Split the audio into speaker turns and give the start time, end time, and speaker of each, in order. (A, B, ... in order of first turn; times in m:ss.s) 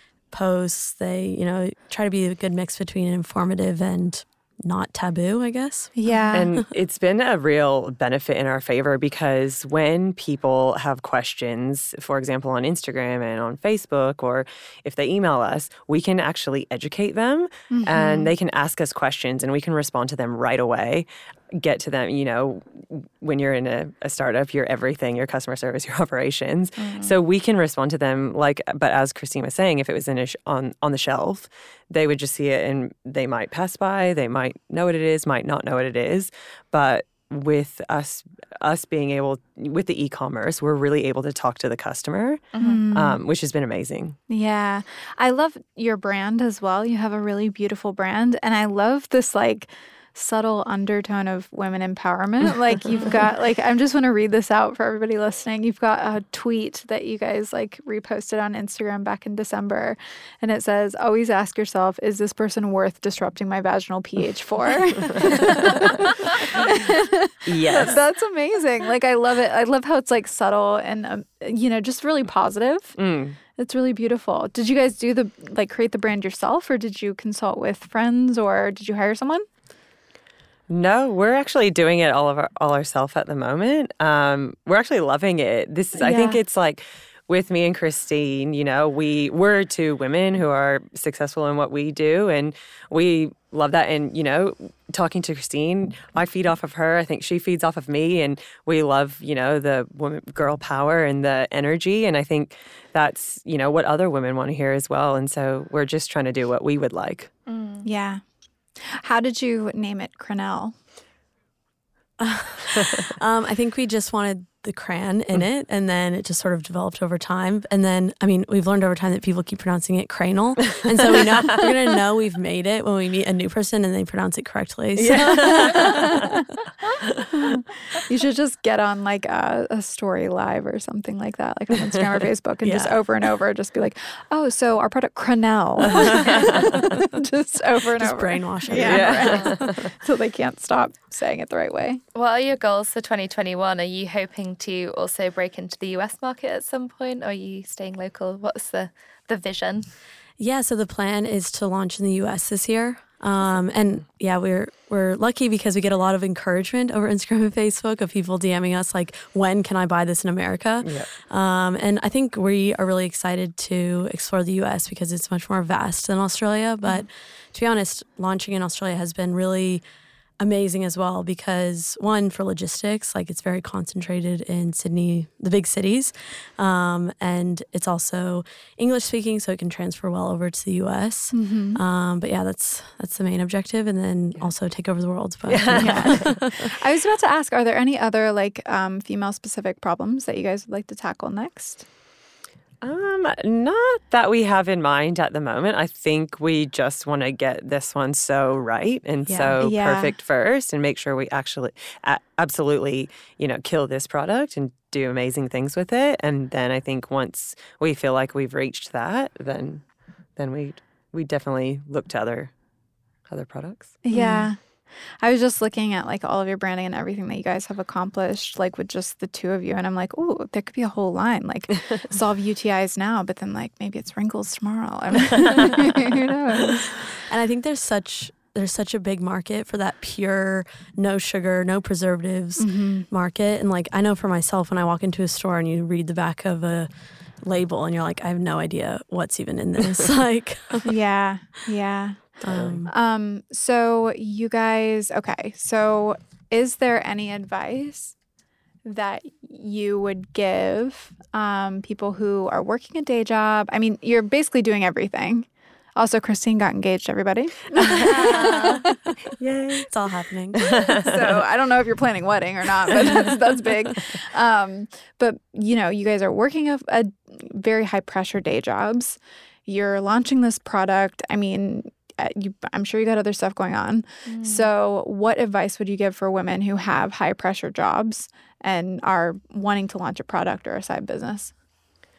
0:00.3-0:06.7 A
0:06.0-0:06.5 B
0:06.3-0:44.2 C
0:17.7-0:18.3 B
0:26.8-0:27.1 D
0:42.5-0:42.8 D
0:42.6-0:43.2 B
0:44.3-1:13.0 B
1:05.2-1:05.5 C
1:07.5-1:08.0 C
1:13.0-1:13.4 C
1:13.6-1:19.5 B
1:20.7-1:47.3 C
1:26.0-1:26.4 B
1:47.5-1:47.9 D
1:47.8-1:48.2 B
1:48.8-1:50.7 B
1:52.2-2:06.4 A
2:05.0-2:06.2 C
2:07.3-2:22.0 B
2:12.6-2:13.0 A
2:15.8-2:16.9 C
2:18.0-2:19.6 A
2:18.7-2:19.9 C
2:19.3-2:19.6 D
2:22.1-2:29.9 D
2:30.4-2:49.8 A
2:40.8-2:41.1 C
2:50.4-3:06.7 A
3:01.3-3:01.8 B
3:05.5-3:06.3 C
3:05.7-3:11.9 B
3:12.8-3:29.8 C
3:19.3-3:20.1 B
3:30.4-3:32.5 C
3:33.3-3:34.5 C
3:34.1-3:34.6 B
3:34.1-3:34.4 A
3:35.2-3:47.0 B
3:47.2-3:56.9 A
3:52.6-3:53.1 B
3:57.4-4:00.9 A
4:00.8-4:08.1 B
4:02.4-4:02.9 A
4:02.5-4:02.8 C
4:08.8-4:19.0 B
4:18.0-4:18.8 D
4:19.4-4:19.9 C
4:19.9-4:20.7 A
4:20.5-4:21.2 C
4:20.9-4:41.5 B
4:34.3-4:34.7 D